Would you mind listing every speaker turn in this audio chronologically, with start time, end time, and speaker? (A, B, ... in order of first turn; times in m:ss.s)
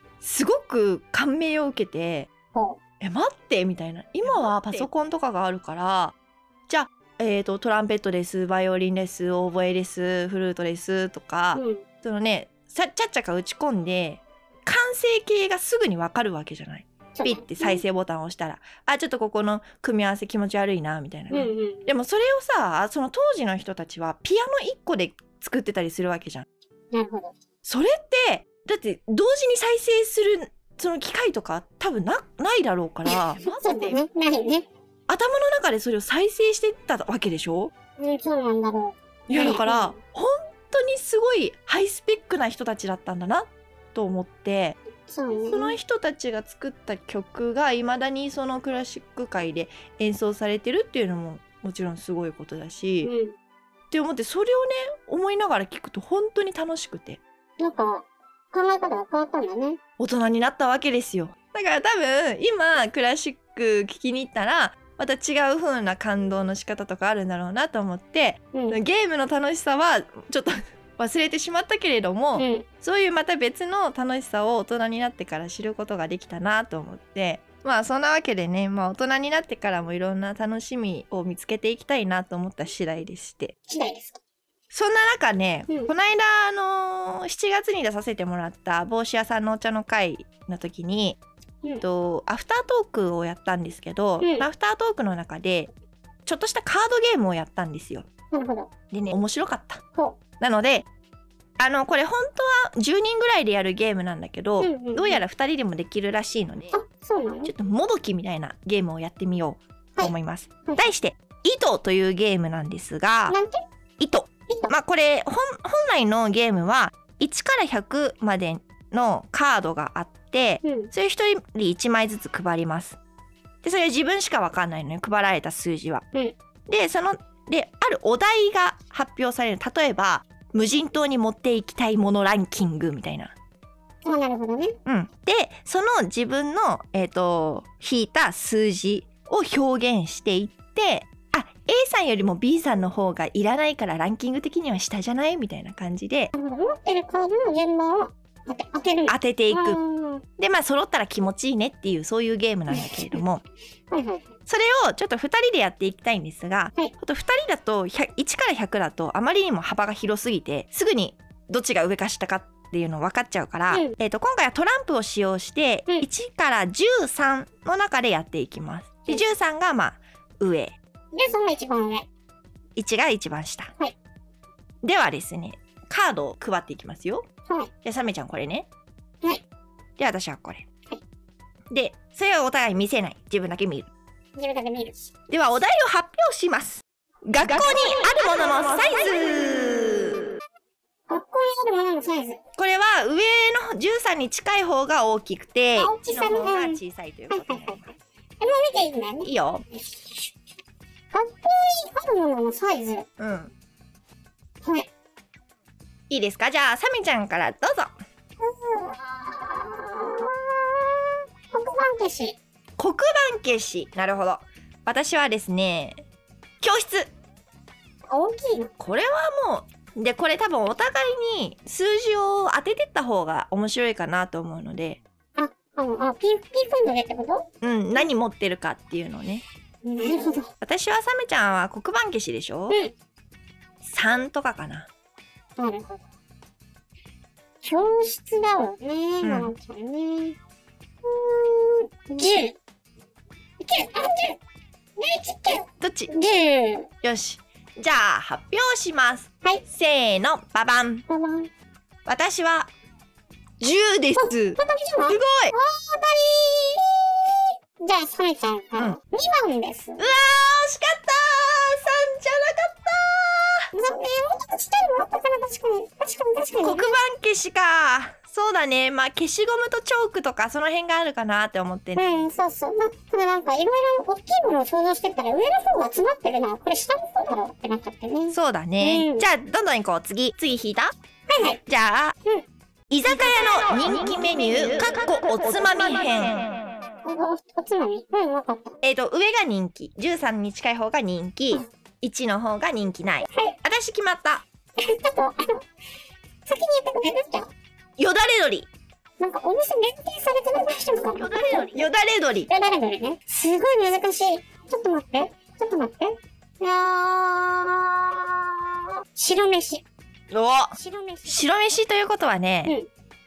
0:00.2-0:02.3 A
0:02.5-0:02.8 B
0:03.0-0:06.2 A
0:06.7-0:26.5 A
0:11.5-0:11.8 B
0:17.2-0:17.8 B
0:21.3-0:21.9 B
0:26.9-0:27.3 B
0:27.6-0:34.0 A
0:33.1-0:34.7 B
0:35.1-0:37.7 A
0:38.0-0:40.0 B
0:39.3-0:44.8 A
0:45.1-0:45.8 B
0:45.3-0:53.1 A
0:53.0-0:53.4 B
0:53.9-0:57.2 A
0:57.6-0:59.8 B
1:00.0-1:23.6 A
1:12.4-1:12.7 B
1:23.7-1:24.2 B
1:24.7-1:31.2 A
1:31.8-1:35.7 A
1:34.2-1:34.5 B
1:36.3-1:38.1 A
1:38.3-1:38.7 B
1:38.9-1:39.8 A
1:40.4-1:40.9 A
1:41.6-1:46.8 A
1:44.6-1:45.2 B
1:46.7-1:47.5 B
1:47.4-1:53.4 A
1:53.3-1:53.6 B
1:54.0-2:03.0 A
2:00.6-2:00.9 B
2:03.6-2:06.0 A
2:06.7-2:13.3 A
2:14.0-2:14.8 B
2:14.9-2:26.3 A
2:26.4-2:30.2 B
2:29.1-2:29.8 A
2:30.4-2:33.4 A
2:32.7-2:33.2 B
2:33.9-2:34.3 B
2:34.5-2:50.8 A
2:43.7-2:44.0 B
2:51.1-2:52.1 B
2:52.8-2:53.7 A
2:54.8-2:57.3 A
2:57.8-2:58.7 A
3:00.0-3:00.6 A
3:01.7-3:03.9 A
3:04.4-3:05.1 B
3:05.3-3:10.2 A
3:11.1-3:12.4 B
3:12.6-3:18.0 A
3:15.8-3:17.8 B
3:18.4-3:20.3 B
3:19.2-3:19.6 A
3:21.1-3:23.1 B
3:23.2-3:23.5 A
3:24.6-3:24.9 B
3:26.1-3:27.9 A
3:28.4-3:32.4 B
3:32.8-3:36.0 A
3:36.6-3:37.1 A
3:38.1-3:38.7 B
3:38.8-3:45.0 A
3:45.4-3:47.5 B
3:47.6-3:49.4 A
3:49.8-3:50.5 B
3:50.6-3:52.8 A
3:53.8-3:54.9 A
3:55.6-3:56.0 B
3:57.6-4:00.4 B
3:59.2-3:59.6 A
4:01.0-4:02.6 B
4:03.6-4:04.4 B
4:05.0-4:06.9 B
4:05.8-4:06.1 A
4:07.0-4:11.0 A
4:11.1-4:11.5 B
4:12.1-4:12.7 A
4:13.6-4:15.5 A
4:14.2-4:20.1 B
4:20.0-4:23.7 A
4:23.7-4:26.9 B
4:26.6-4:32.1 A
4:32.0-4:39.3 B
4:38.3-4:40.9 A
4:41.3-4:41.6 B
4:41.7-4:42.2 A
4:42.9-4:46.5 A
4:43.1-4:43.4 B
4:47.0-4:48.8 B
4:48.8-4:54.4 A
4:54.8-4:55.6 B
4:56.5-4:57.5 B
4:58.0-4:58.7 A
4:59.2-5:01.8 B
5:01.2-5:02.5 A
5:02.5-5:09.8 B
5:10.3-5:10.7 A
5:10.7-5:11.4 B
5:11.3-5:12.8 A